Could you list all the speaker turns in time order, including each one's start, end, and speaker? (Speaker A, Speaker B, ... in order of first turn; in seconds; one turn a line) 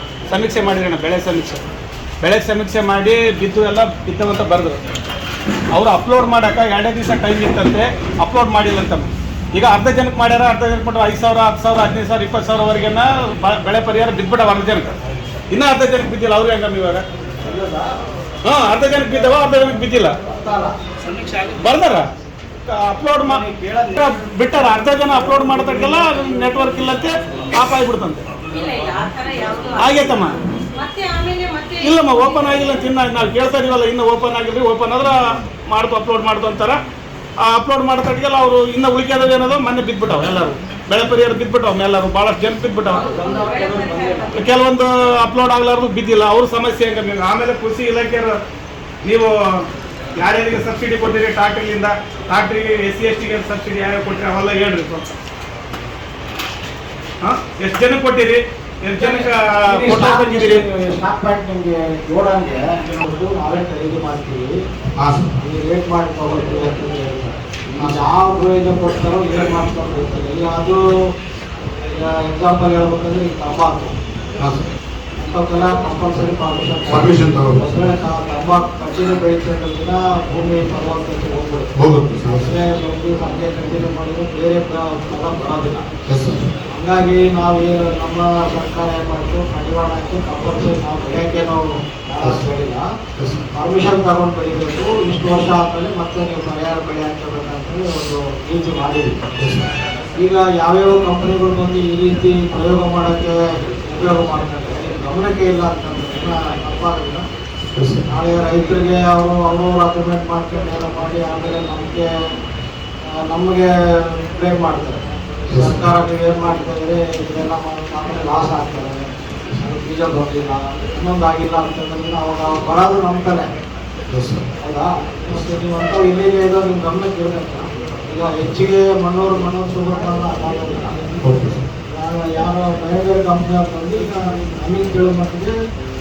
Speaker A: 0.3-1.6
Speaker A: 2.2-4.8
Speaker A: 5.7-14.9
Speaker A: 15.5-17.0
Speaker B: 17.4-17.9
Speaker A: 18.4-20.1
Speaker B: 20.2-20.7
Speaker A: 21.5-22.0
Speaker A: 22.6-23.4
Speaker B: 23.2-23.9
Speaker A: 23.9-28.2
Speaker C: 28.5-29.9
Speaker A: 29.8-30.4
Speaker C: 30.8-32.0
Speaker A: 31.8-35.1
Speaker A: 35.7-36.8
Speaker A: 37.4-43.1
Speaker C: 42.9-44.3
Speaker B: 43.1-44.3
Speaker A: 44.3-48.3
Speaker A: 49.0-49.6
Speaker A: 50.2-55.1
Speaker A: 57.2-60.6
Speaker B: 59.0-64.5
Speaker D: 65.0-65.3
Speaker B: 65.4-70.8
Speaker D: 67.8-68.1
Speaker B: 71.9-73.9
Speaker D: 74.4-74.7
Speaker B: 75.2-81.7
Speaker D: 76.9-77.9
Speaker D: 81.8-82.5
Speaker B: 82.3-85.8
Speaker D: 86.1-86.5
Speaker B: 86.7-92.8
Speaker D: 93.2-93.5
Speaker B: 93.5-99.2
Speaker D: 99.4-99.7
Speaker B: 100.2-107.2
Speaker D: 107.7-108.0
Speaker B: 108.1-112.1
Speaker B: 113.0-115.0
Speaker D: 115.5-115.8
Speaker B: 115.5-119.0
Speaker B: 119.6-123.5
Speaker D: 124.1-124.5
Speaker B: 124.6-131.3
Speaker D: 131.2-131.6
Speaker B: 131.9-135.5